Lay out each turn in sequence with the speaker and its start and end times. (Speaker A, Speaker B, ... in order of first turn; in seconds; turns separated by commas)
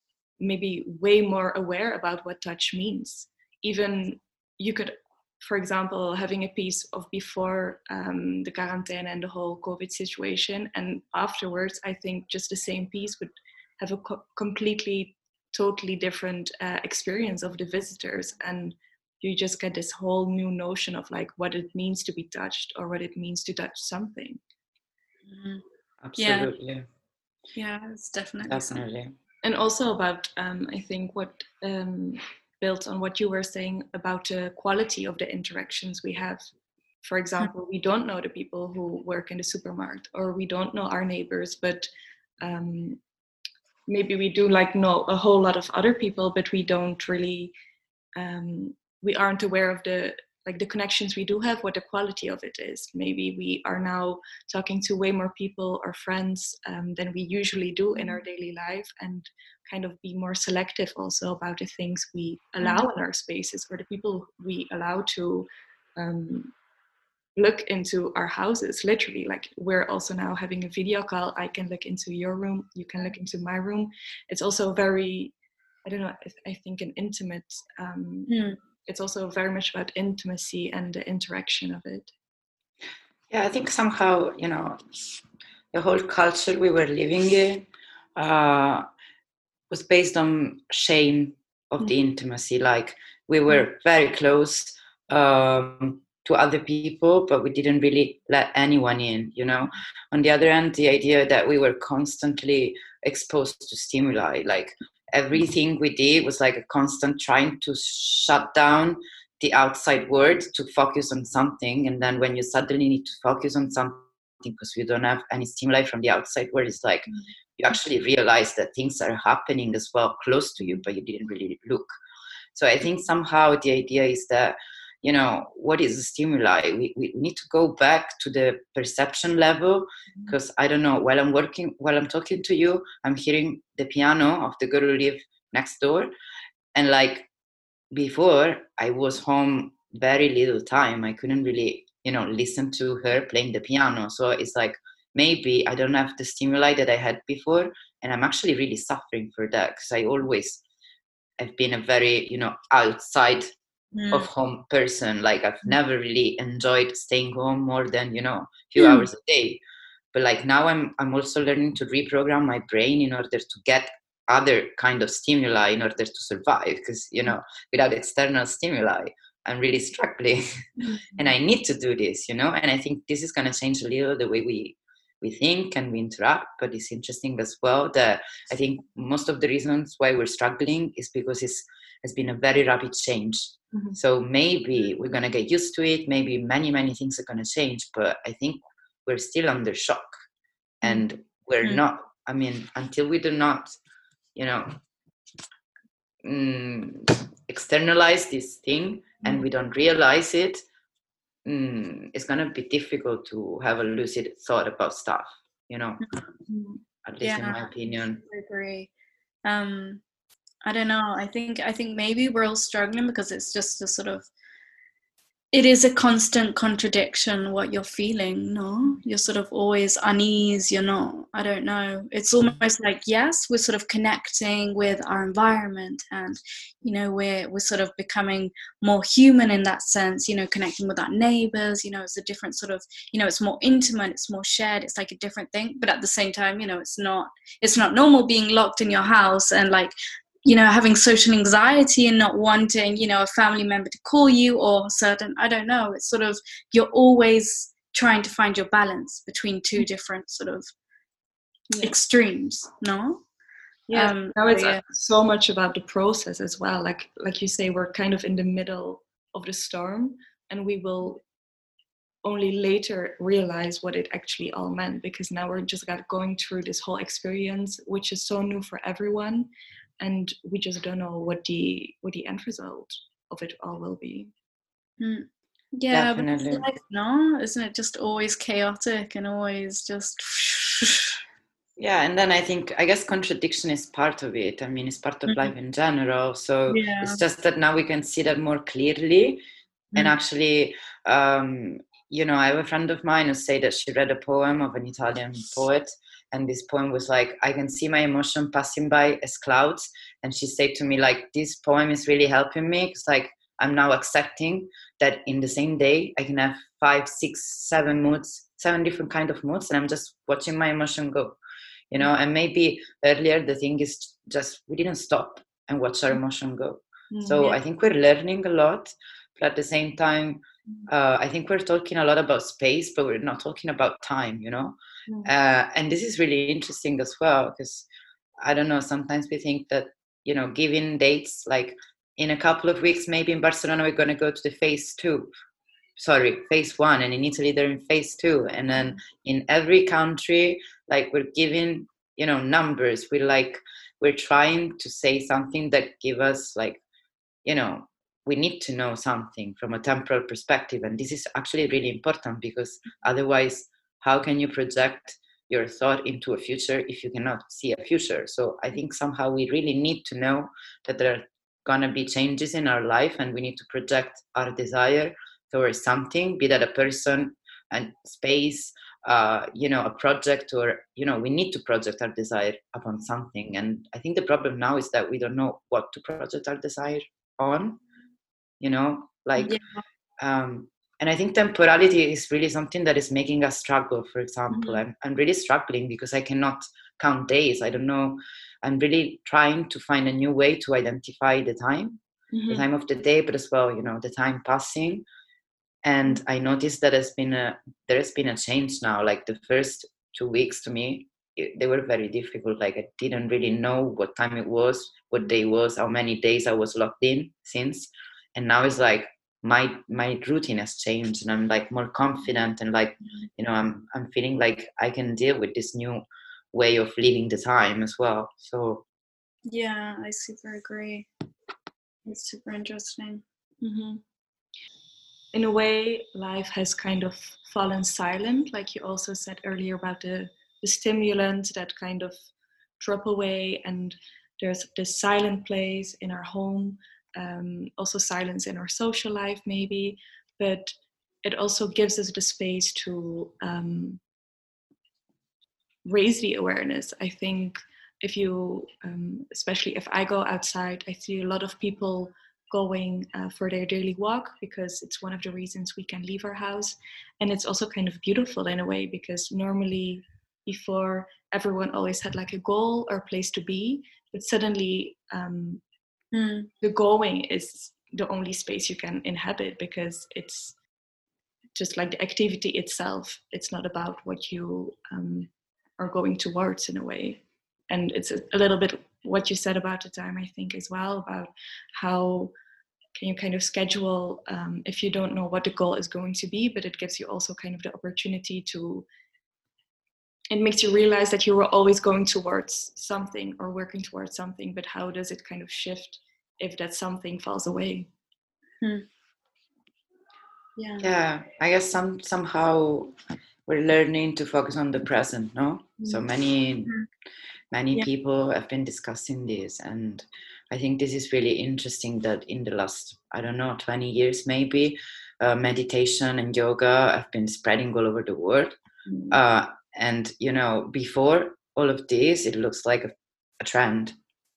Speaker A: 0.4-24.4, Speaker B: 25.3-25.6, Speaker C: 26.0-26.9, Speaker B: 26.2-26.5, Speaker B: 27.6-28.8, Speaker C: 28.5-29.1, Speaker A: 29.4-36.5, Speaker A: 37.0-41.9, Speaker A: 42.4-43.0, Speaker A: 43.9-47.5, Speaker A: 48.2-66.5, Speaker A: 67.4-75.3, Speaker A: 75.8-82.1, Speaker B: 78.3-78.6, Speaker C: 83.3-84.8, Speaker C: 85.7-88.8, Speaker C: 89.7-122.0, Speaker C: 122.5-136.1, Speaker C: 136.8-137.3, Speaker C: 137.9-150.6, Speaker C: 151.4-153.5, Speaker B: 153.9-154.3, Speaker C: 154.1-159.6, Speaker B: 158.8-159.1, Speaker C: 160.1-170.4, Speaker C: 171.2-190.1, Speaker C: 190.8-193.8, Speaker C: 194.3-194.8, Speaker C: 196.2-200.6, Speaker C: 201.4-206.0, Speaker A: 206.5-206.8, Speaker C: 207.1-208.2, Speaker B: 207.2-208.9, Speaker B: 209.4-210.0, Speaker B: 210.7-214.3, Speaker B: 215.5-239.9, Speaker B: 240.4-250.7, Speaker B: 251.8-253.2, Speaker A: 253.9-261.2, Speaker B: 253.9-254.8, Speaker A: 262.2-269.5, Speaker A: 270.0-274.3, Speaker B: 275.0-281.2, Speaker C: 275.9-276.7, Speaker C: 281.8-289.4, Speaker B: 286.7-287.2, Speaker C: 289.9-311.4, Speaker C: 311.9-327.9, Speaker A: 317.1-317.6, Speaker C: 328.4-335.3, Speaker C: 336.0-346.8, Speaker C: 347.4-377.8, Speaker C: 378.6-379.6, Speaker B: 379.4-379.8, Speaker C: 380.2-395.0, Speaker A: 384.5-384.8, Speaker A: 392.3-392.7, Speaker C: 395.8-418.9, Speaker B: 419.5-421.1, Speaker B: 422.1-423.2, Speaker A: 423.6-424.0, Speaker A: 425.3-432.3, Speaker A: 432.8-444.0, Speaker A: 445.8-465.6, Speaker B: 466.1-466.5, Speaker A: 466.6-470.6, Speaker A: 471.6-482.3, Speaker A: 483.0-488.9, Speaker A: 490.3-497.9, Speaker B: 500.6-500.9, Speaker C: 500.8-502.9, Speaker C: 503.5-506.7, Speaker C: 507.5-518.5, Speaker A: 518.9-519.2, Speaker C: 519.1-524.0